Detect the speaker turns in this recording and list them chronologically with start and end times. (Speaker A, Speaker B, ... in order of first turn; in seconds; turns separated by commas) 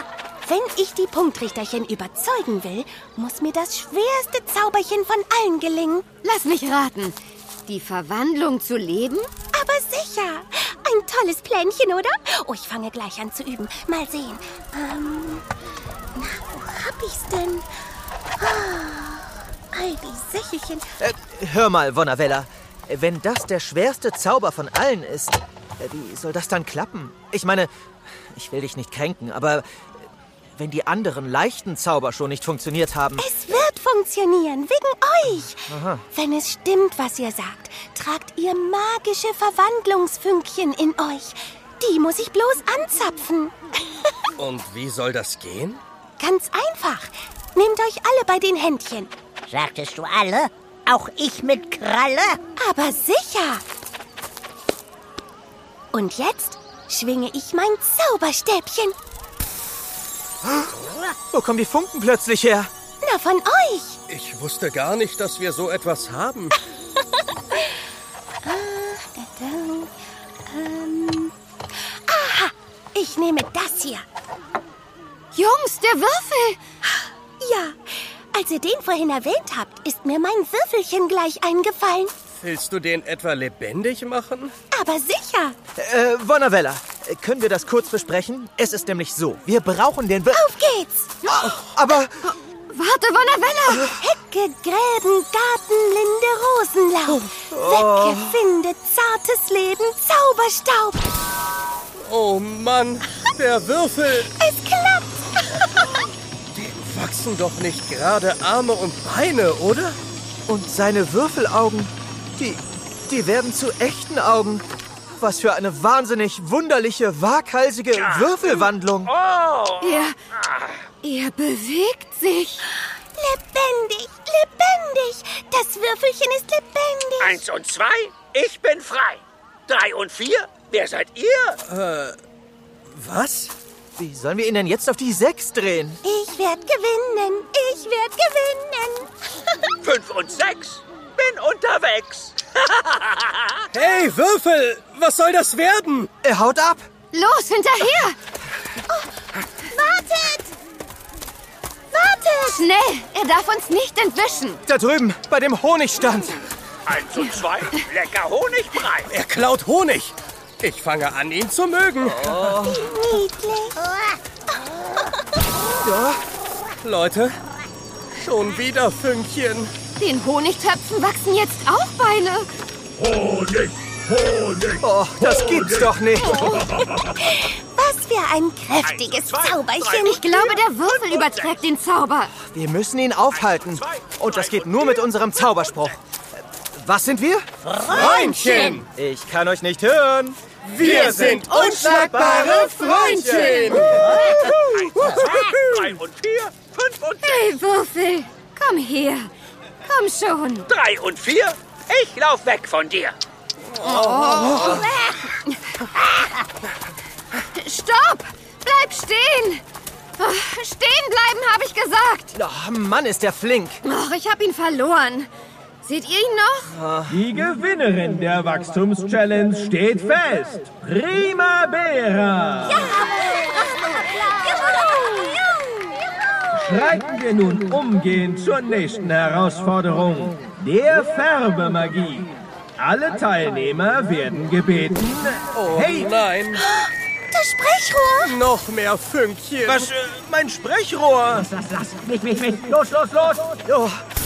Speaker A: 0.4-6.1, Speaker B: 6.2-7.2, Speaker B: 7.7-9.3, Speaker A: 9.5-15.5, Speaker A: 16.1-17.7, Speaker A: 18.4-20.9, Speaker C: 21.0-27.7, Speaker C: 28.3-29.8, Speaker C: 30.5-33.3, Speaker A: 33.2-43.5, Speaker C: 35.7-36.0, Speaker D: 44.4-45.8, Speaker A: 46.2-49.1, Speaker E: 49.5-52.4, Speaker A: 52.6-53.6, Speaker A: 55.9-58.9, Speaker C: 61.3-62.7, Speaker A: 63.0-64.0, Speaker D: 64.1-66.6, Speaker A: 68.4-69.9, Speaker A: 70.5-71.3, Speaker A: 71.8-74.0, Speaker B: 75.3-76.6, Speaker A: 76.8-82.1, Speaker D: 82.4-84.5, Speaker A: 84.7-85.5, Speaker C: 85.8-90.4, Speaker A: 90.3-91.3, Speaker B: 91.2-91.5, Speaker C: 91.3-92.2, Speaker B: 92.2-93.9, Speaker A: 94.0-101.1, Speaker C: 97.3-98.4, Speaker D: 102.0-104.3, Speaker A: 104.4-106.0, Speaker D: 106.5-110.0, Speaker C: 110.5-114.7, Speaker C: 115.2-119.1, Speaker F: 119.2-119.9, Speaker B: 119.8-120.2, Speaker F: 120.4-120.7, Speaker B: 121.0-122.7, Speaker A: 123.2-127.4, Speaker F: 127.2-131.6, Speaker D: 131.7-132.2, Speaker D: 132.9-133.5, Speaker C: 134.0-136.0, Speaker A: 136.0-139.1, Speaker F: 139.8-143.5, Speaker D: 143.7-146.1, Speaker C: 146.2-146.8, Speaker B: 147.1-148.2, Speaker A: 149.8-150.5, Speaker B: 152.0-154.6, Speaker C: 154.7-156.4, Speaker F: 156.9-159.1, Speaker D: 159.0-162.6, Speaker C: 162.1-162.9, Speaker A: 162.7-163.8, Speaker C: 165.6-166.2, Speaker D: 166.8-167.4, Speaker D: 168.1-169.7, Speaker B: 169.9-172.5, Speaker D: 173.1-173.7, Speaker D: 174.2-174.7, Speaker C: 174.8-176.4, Speaker A: 176.3-180.6, Speaker F: 178.8-180.0, Speaker B: 180.0-182.3, Speaker F: 180.9-181.4, Speaker C: 182.3-186.0, Speaker C: 186.7-187.5, Speaker E: 187.6-188.6, Speaker D: 187.9-188.9, Speaker B: 188.4-188.8, Speaker C: 188.9-193.5, Speaker D: 190.6-196.0, Speaker B: 192.2-194.2, Speaker F: 195.2-197.3, Speaker B: 197.2-199.3, Speaker B: 199.8-200.7, Speaker F: 200.7-203.2, Speaker D: 203.7-204.9, Speaker B: 203.8-204.9, Speaker B: 207.5-209.6, Speaker B: 210.2-212.3, Speaker C: 212.3-213.8, Speaker B: 213.8-215.3, Speaker B: 215.8-216.7, Speaker C: 216.7-217.2, Speaker G: 217.1-223.0, Speaker A: 222.7-225.8, Speaker G: 226.5-236.1, Speaker D: 235.5-236.6, Speaker A: 236.6-238.3, Speaker D: 238.2-239.9, Speaker G: 239.7-243.4, Speaker C: 240.2-240.9, Speaker C: 243.7-244.0